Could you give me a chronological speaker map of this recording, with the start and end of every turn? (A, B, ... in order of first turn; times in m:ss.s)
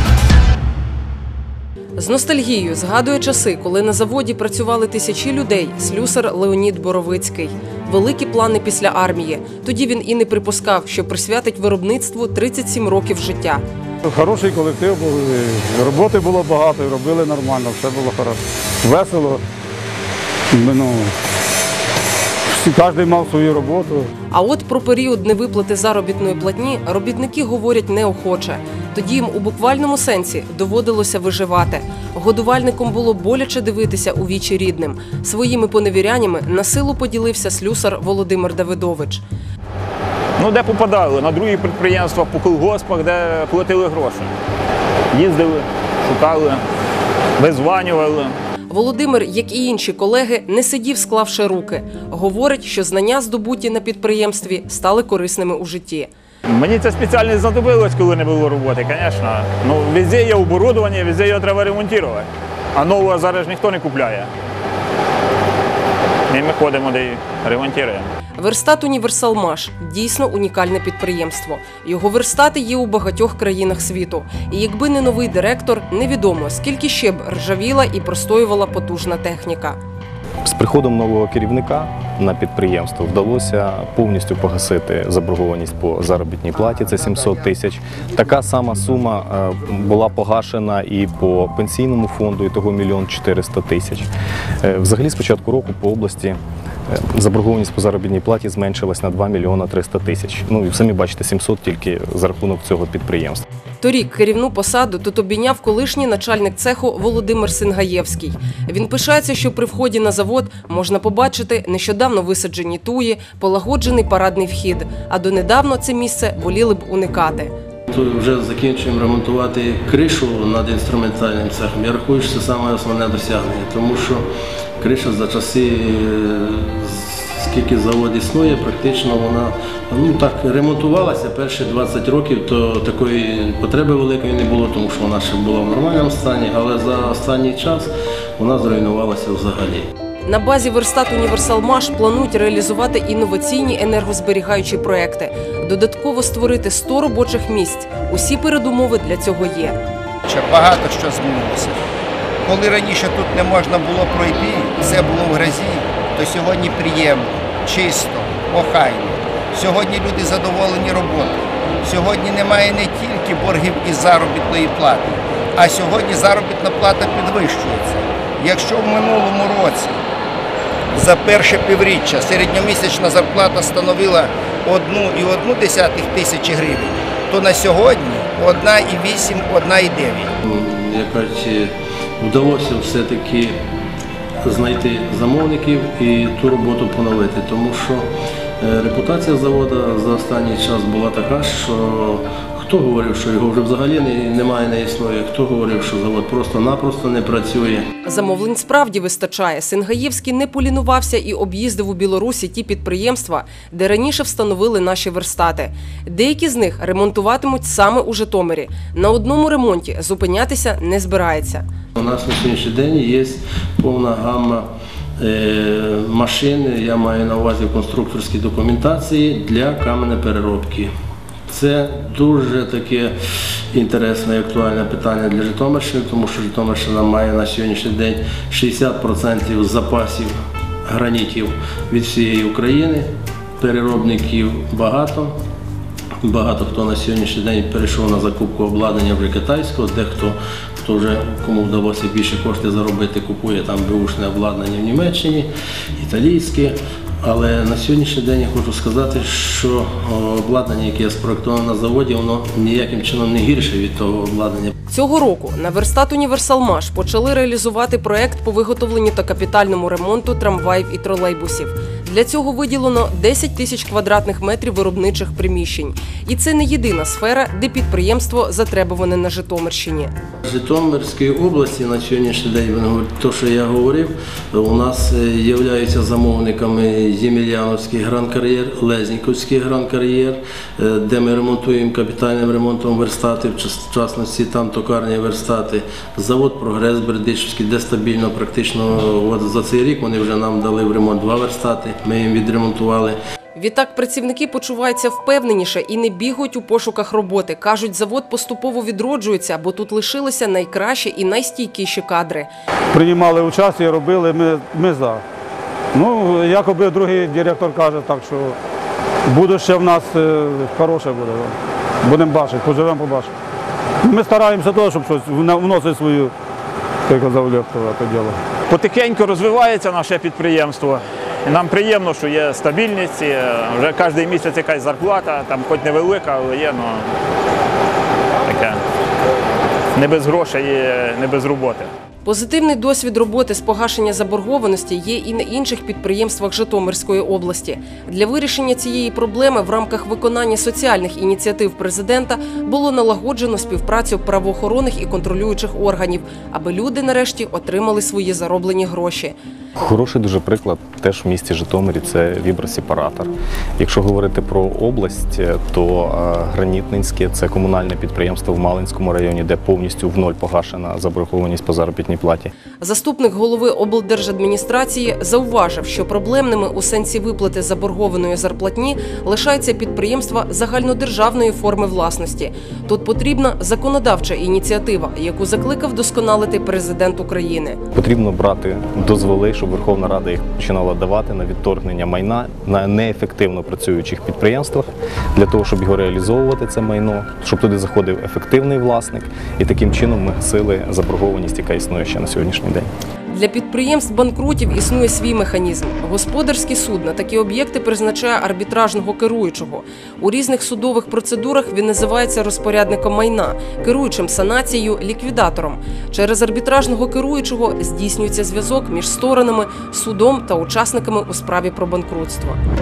0:02.0-0:13.6 A
0:14.0-0:19.4 B
0:20.5-0:21.1 B
0:22.5-0:24.1 B
0:24.3-0:39.2 A
0:40.4-0:44.3 C
0:45.1-0:46.6 C
0:47.4-0:48.3 C
0:48.7-0:56.1 A
0:56.5-1:04.3 C
1:06.3-1:08.1 C
1:08.4-1:19.8 A
1:20.4-1:34.1 D
1:34.6-1:36.4 D
1:36.9-1:43.4 D
1:43.8-1:57.5 A
1:57.9-2:04.2 E
2:04.8-2:19.9 E
2:20.2-2:29.8 A
2:30.3-2:31.8 F
2:32.4-2:50.0 F
2:50.9-3:00.3 F
3:00.5-3:03.6 E
3:04.4-3:08.0 E
3:08.6-3:17.9 E
3:18.0-3:31.6 A
3:32.0-3:34.7 E
3:35.2-3:40.9 E
3:41.5-3:43.1 E
3:43.7-3:50.3 E
3:50.8-3:53.1 E
3:53.6-3:55.3 E
3:56.2-4:14.7 E
4:14.9-4:30.1 A
4:30.4-4:53.2 E
4:53.5-5:02.5 A
5:02.9-5:05.2 B
5:05.9-5:08.6 B
5:09.2-5:13.3 B
5:14.0-5:16.3 B
5:17.1-5:18.4 B
5:18.7-5:27.1 C
5:28.4-5:28.8 C
5:29.9-5:31.9 C
5:32.2-5:49.3 A
5:49.8-6:02.5 D
6:02.8-6:17.8 A
6:17.9-6:32.9 D
6:33.3-6:52.6 A